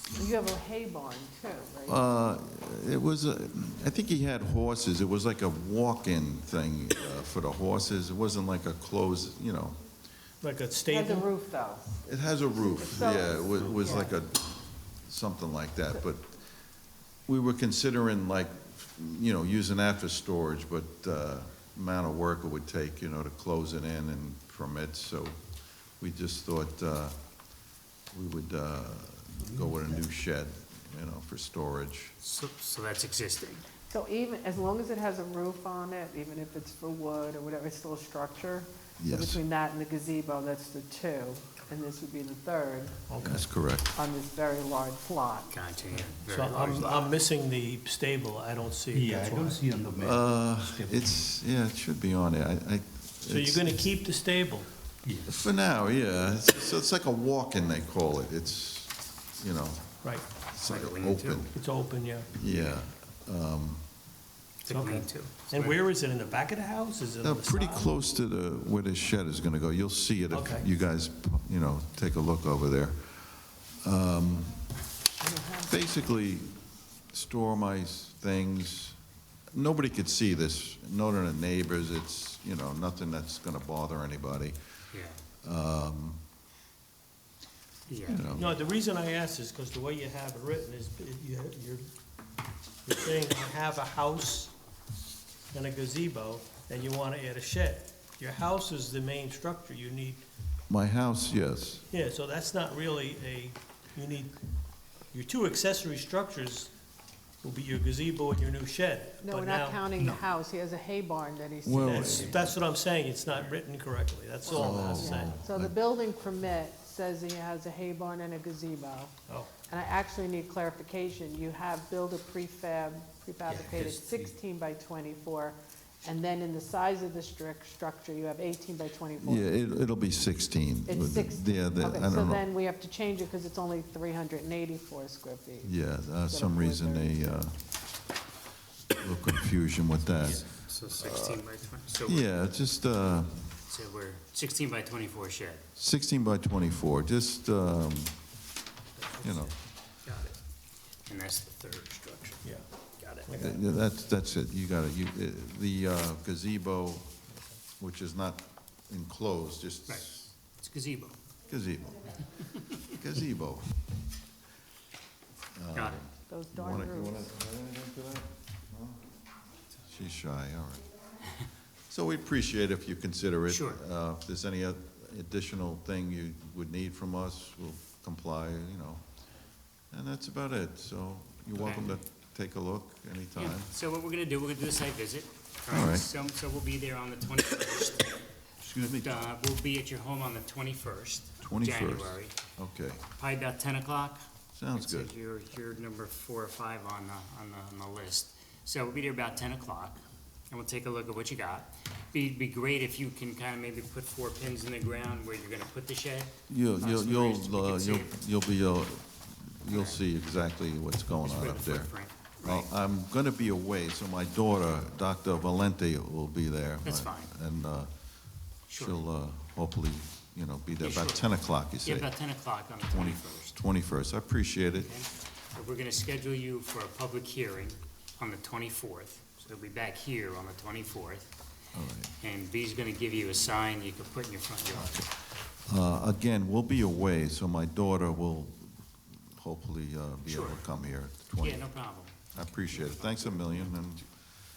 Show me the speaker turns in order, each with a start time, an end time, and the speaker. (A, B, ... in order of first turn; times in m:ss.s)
0:00.2-0:02.0 A
0:01.8-0:09.8 B
0:10.4-0:11.3 C
0:10.9-0:14.1 A
0:12.0-0:16.4 B
0:17.2-0:25.4 B
0:26.0-0:27.1 B
0:28.1-0:32.2 B
0:29.5-0:29.8 D
0:32.2-0:33.6 E
0:33.9-0:43.1 A
0:39.0-0:39.4 B
0:43.1-0:43.4 C
0:43.2-0:44.0 B
0:43.9-0:45.5 A
0:45.5-0:47.1 E
0:46.3-0:49.7 C
0:48.9-0:51.0 D
0:50.0-0:53.7 B
0:53.2-0:54.7 C
0:55.0-0:55.3 D
0:55.3-1:01.5 B
1:00.6-1:01.5 E
1:01.5-1:02.3 C
1:02.3-1:03.8 B
1:04.6-1:05.8 E
1:04.7-1:07.9 C
1:07.2-1:13.2 B
1:10.3-1:10.7 C
1:13.8-1:14.7 B
1:15.4-1:19.0 B
1:19.5-1:24.8 B
1:24.9-1:25.2 E
1:25.4-1:26.2 B
1:27.9-1:28.5 E
1:28.0-1:28.5 B
1:28.3-1:31.8 C
1:32.8-1:34.5 C
1:35.5-1:40.2 C
1:40.7-1:41.8 B
1:41.9-1:44.3 C
1:45.1-1:46.7 C
1:47.4-1:49.8 C
1:49.2-1:52.4 A
1:51.6-1:52.4 B
1:51.8-1:55.4 C
1:54.5-1:55.8 B
1:54.5-1:59.1 A
1:59.7-2:09.5 A
2:03.5-2:04.3 E
2:09.2-2:12.4 B
2:10.8-2:17.5 A
2:15.6-2:17.5 B
2:19.0-2:21.4 B
2:20.1-2:22.3 E
2:22.0-2:23.4 B
2:23.7-2:25.6 E
2:25.8-2:28.2 B
2:29.0-2:30.4 E
2:29.2-2:29.5 B
2:31.0-2:33.3 E
2:32.4-2:33.6 C
2:33.4-2:37.1 B
2:37.8-2:40.2 B
2:39.9-2:41.2 E
2:41.5-2:42.2 B
2:42.9-2:43.8 B
2:45.5-2:49.0 B
2:45.7-2:46.0 E
2:46.3-2:47.3 A
2:49.9-2:50.9 B
2:51.9-2:59.0 B
2:53.5-2:53.8 E
2:59.9-3:03.7 B
3:01.6-3:02.0 E
3:03.4-3:08.2 E
3:05.7-3:06.1 B
3:08.6-3:09.2 B
3:08.8-3:12.3 E
3:11.4-3:13.0 B
3:13.2-3:28.2 E
3:14.6-3:15.1 B
3:26.5-3:37.9 B
3:29.7-3:30.0 E
3:31.1-3:32.7 E
3:36.8-3:37.3 E
3:38.7-3:39.0 E
3:38.7-3:42.1 B
3:40.8-3:43.6 E
3:42.9-3:44.9 B
3:44.7-3:51.3 E
3:51.7-3:52.1 B
3:52.2-3:55.0 E
3:54.7-4:04.2 B
4:00.3-4:00.7 E
4:01.4-4:03.7 E